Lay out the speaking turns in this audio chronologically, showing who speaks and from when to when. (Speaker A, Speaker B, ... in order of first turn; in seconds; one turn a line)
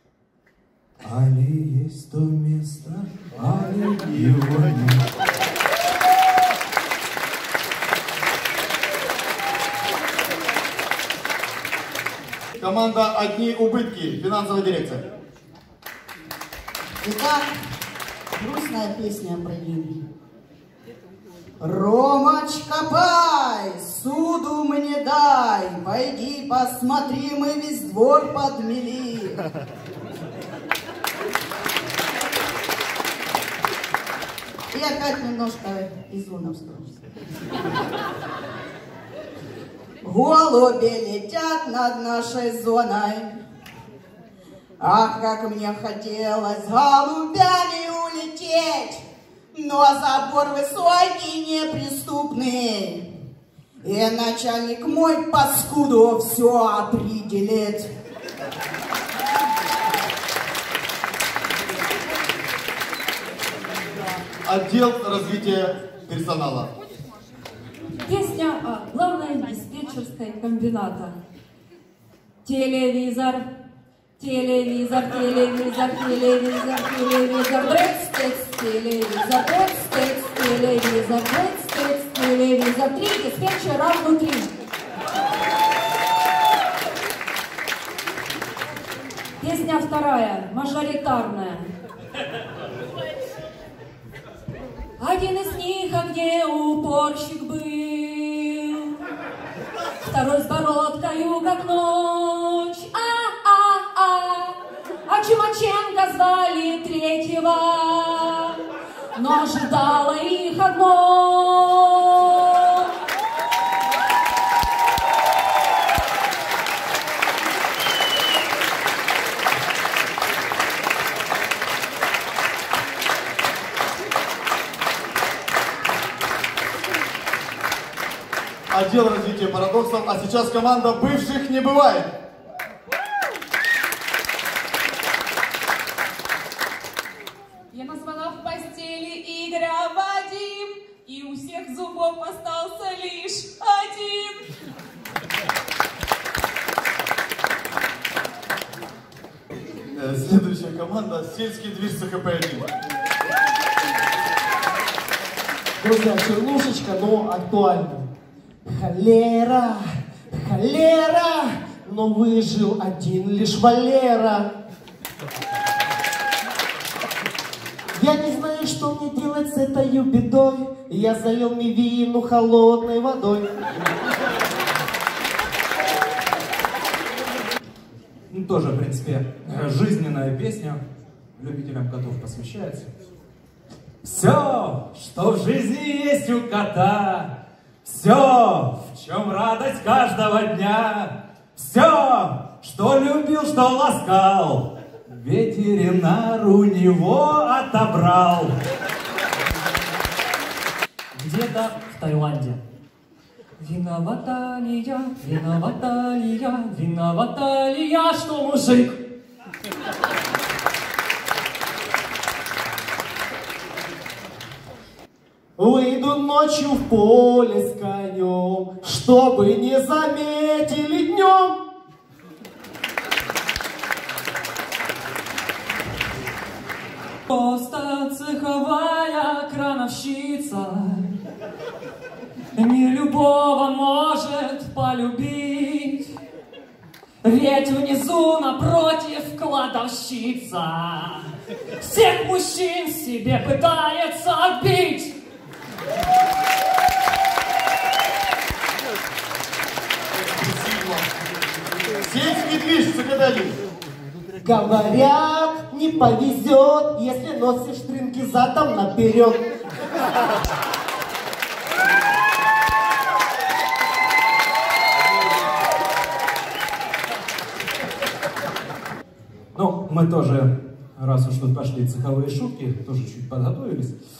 Speaker A: 1.0-5.0
Speaker B: 12.6-15.1
Speaker C: 17.0-17.5
Speaker C: 18.4-20.0
Speaker C: 21.6-29.4
Speaker C: 34.7-37.0
Speaker C: 40.0-43.4
Speaker C: 44.8-53.0
Speaker C: 53.8-57.9
Speaker B: 64.4-66.7
Speaker D: 68.0-71.2
Speaker D: 72.4-73.4
Speaker D: 74.2-84.5
Speaker D: 89.4-91.7
Speaker D: 95.0-99.0
Speaker D: 100.0-108.6
Speaker D: 109.1-112.9
Speaker B: 128.7-132.1
Speaker E: 137.7-144.3
Speaker B: 149.9-152.7
Speaker F: 155.8-158.1
Speaker F: 158.7-164.5
Speaker F: 167.9-173.5
Speaker A: 178.3-180.8
Speaker A: 181.4-182.9
Speaker A: 184.0-187.3
Speaker A: 187.8-198.5
Speaker G: 201.1-202.6
Speaker G: 203.6-209.0
Speaker F: 215.6-221.6
Speaker G: 227.3-231.1
Speaker G: 232.6-236.2
Speaker G: 237.2-245.1
Speaker B: 250.3-251.1
Speaker B: 252.0-253.6
Speaker F: 254.4-259.5
Speaker A: 269.5-273.9